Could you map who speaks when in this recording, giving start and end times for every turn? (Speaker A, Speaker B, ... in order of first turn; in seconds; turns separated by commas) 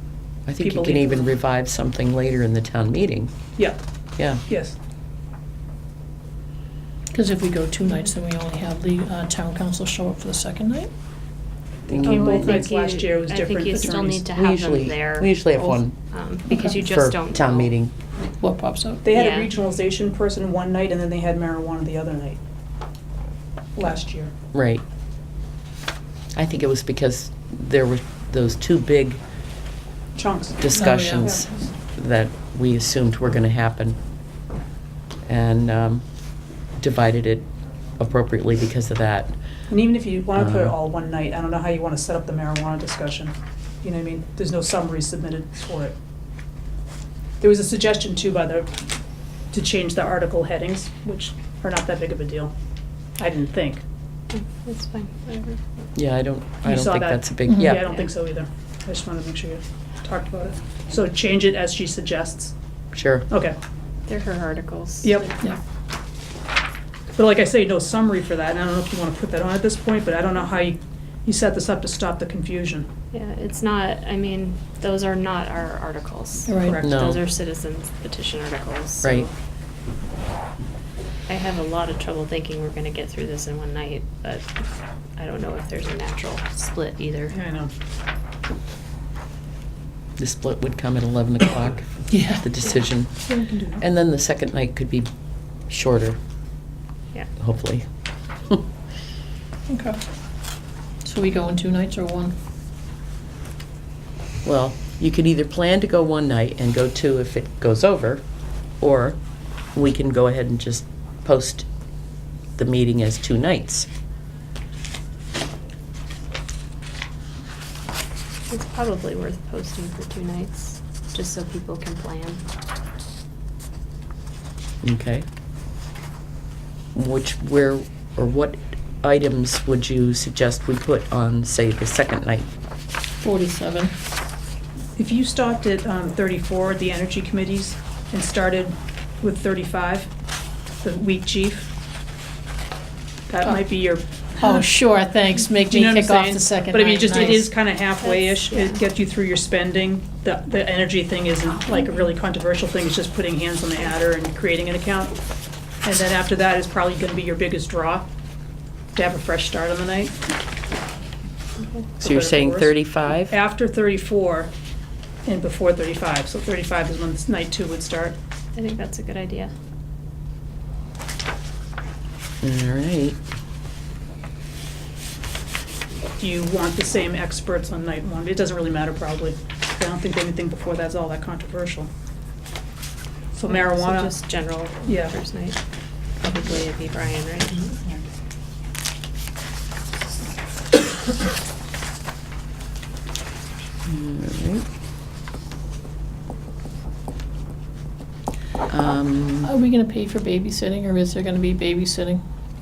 Speaker A: 0.5-3.3, Speaker B: 0.6-1.3, Speaker B: 4.4-4.8, Speaker C: 7.1-10.9, Speaker A: 11.9-12.6, Speaker D: 11.9-17.7, Speaker B: 12.0-14.3, Speaker A: 14.3-15.9, Speaker C: 16.5-16.8, Speaker A: 16.8-17.9, Speaker C: 18.4-19.0, Speaker B: 19.0-22.4, Speaker D: 19.1-19.5, Speaker B: 23.8-24.3, Speaker A: 24.5-24.8, Speaker A: 26.3-29.2, Speaker B: 30.1-31.6, Speaker A: 30.6-34.0, Speaker C: 30.7-31.5, Speaker A: 35.2-36.0, Speaker A: 36.8-37.5, Speaker A: 38.0-39.3, Speaker B: 39.7-46.0, Speaker A: 40.3-40.7, Speaker B: 47.4-48.7, Speaker B: 49.5-52.5, Speaker B: 53.2-53.8, Speaker D: 54.3-55.6, Speaker A: 55.9-57.8, Speaker B: 56.6-62.5, Speaker C: 57.5-57.8, Speaker D: 57.8-58.1, Speaker A: 62.9-63.2, Speaker B: 63.3-63.5, Speaker D: 64.1-65.1, Speaker B: 65.0-65.3, Speaker B: 67.1-72.9, Speaker D: 73.1-79.3, Speaker C: 76.5-76.8, Speaker B: 76.5-77.2, Speaker A: 76.8-77.2, Speaker D: 81.3-84.6, Speaker D: 85.2-87.3, Speaker B: 87.3-87.7, Speaker A: 90.2-93.2, Speaker C: 92.1-92.5, Speaker B: 93.3-93.8, Speaker A: 93.8-95.1, Speaker A: 95.7-96.2, Speaker A: 97.4-97.8, Speaker C: 99.7-100.0, Speaker C: 101.0-102.3, Speaker A: 104.4-108.2, Speaker A: 108.8-109.2, Speaker A: 109.7-111.7, Speaker A: 112.6-113.9, Speaker D: 118.5-122.4, Speaker A: 124.8-125.2, Speaker A: 126.9-132.5, Speaker C: 133.2-133.9, Speaker B: 134.9-140.1, Speaker B: 140.8-141.7, Speaker B: 143.3-144.7, Speaker C: 144.4-147.5, Speaker B: 145.7-155.2, Speaker D: 147.1-147.4, Speaker D: 148.0-148.8, Speaker B: 155.8-158.1, Speaker B: 158.9-160.1, Speaker D: 161.6-161.8, Speaker A: 162.0-163.3, Speaker B: 162.0-162.7, Speaker B: 163.3-164.5, Speaker B: 165.2-168.2, Speaker D: 168.5-169.5, Speaker A: 172.4-173.2, Speaker B: 176.2-181.9, Speaker B: 183.3-184.1, Speaker D: 183.5-185.6, Speaker B: 184.8-185.1, Speaker D: 186.2-187.7, Speaker A: 193.8-194.6, Speaker A: 198.7-199.5, Speaker C: 199.4-202.2